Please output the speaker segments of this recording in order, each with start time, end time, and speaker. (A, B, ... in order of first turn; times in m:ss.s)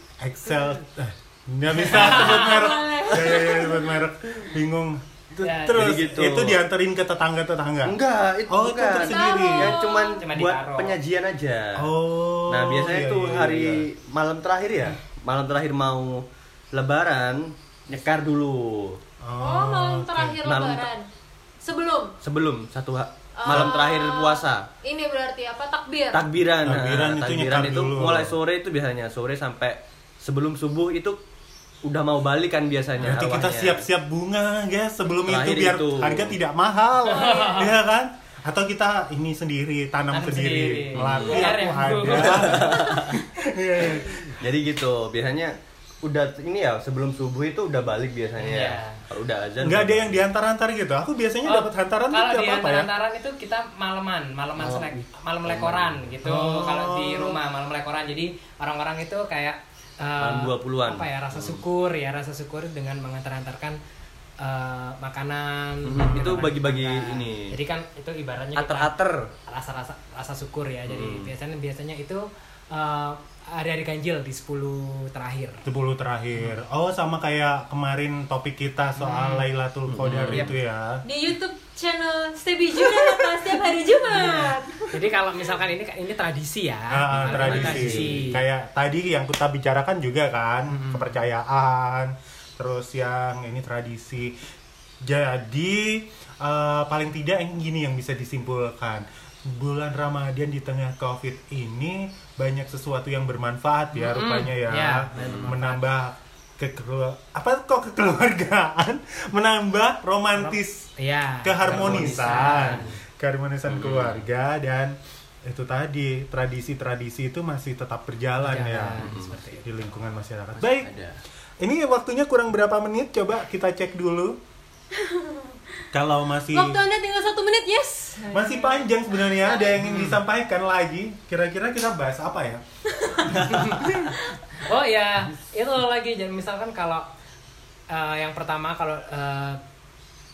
0:00.2-0:08.0 A
0:01.9-0:03.9 B
0:01.9-0:02.6 C
0:05.4-0:05.9 C
0:05.8-0:06.6 D
0:07.8-0:11.8 D
0:08.5-0:09.8 A
0:08.9-0:10.2 B
0:10.2-0:11.0 C
0:11.8-0:13.8 A
0:12.5-0:19.0 D
0:19.2-0:20.4 A
0:19.4-0:21.0 B
0:20.4-0:20.9 D
0:21.6-0:22.1 B
0:22.2-0:24.6 D
0:23.4-0:26.2 B
0:26.1-0:31.2 D
0:26.6-0:28.4 A
0:31.8-0:33.8 D
0:33.0-0:44.4 A
0:35.2-0:36.4 D
0:37.1-0:37.7 C
0:37.1-0:37.7 B
0:40.1-0:42.8 C
0:40.9-0:43.2 D
0:43.8-0:50.2 D
0:48.4-0:49.0 C
0:49.6-0:52.9 A
0:51.4-1:03.8 C
0:54.6-0:56.0 D
0:56.2-0:57.4 A
1:00.2-1:01.6 D
1:04.4-1:08.9 C
1:05.8-1:07.5 D
1:08.5-1:09.3 D
1:09.5-1:15.6 C
1:10.8-1:11.3 D
1:15.6-1:21.0 A
1:19.0-1:19.5 C
1:19.9-1:20.5 D
1:21.0-1:25.0 B
1:24.9-1:28.4 C
1:26.9-1:34.3 A
1:27.1-1:28.2 D
1:35.0-1:50.9 A
1:43.9-1:45.9 C
1:45.1-1:45.5 D
1:50.3-1:52.9 C
1:51.4-1:59.0 A
1:51.6-1:53.0 D
1:53.7-1:54.2 D
1:58.4-1:59.7 C
1:59.0-1:59.4 D
1:59.6-2:00.9 A
2:00.6-2:01.2 D
2:01.6-2:04.4 A
2:04.9-2:05.6 B
2:05.9-2:06.8 A
2:06.5-2:09.7 B
2:08.3-2:12.6 A
2:09.8-2:10.2 D
2:13.4-2:17.0 C
2:13.5-2:14.1 A
2:17.9-2:19.6 C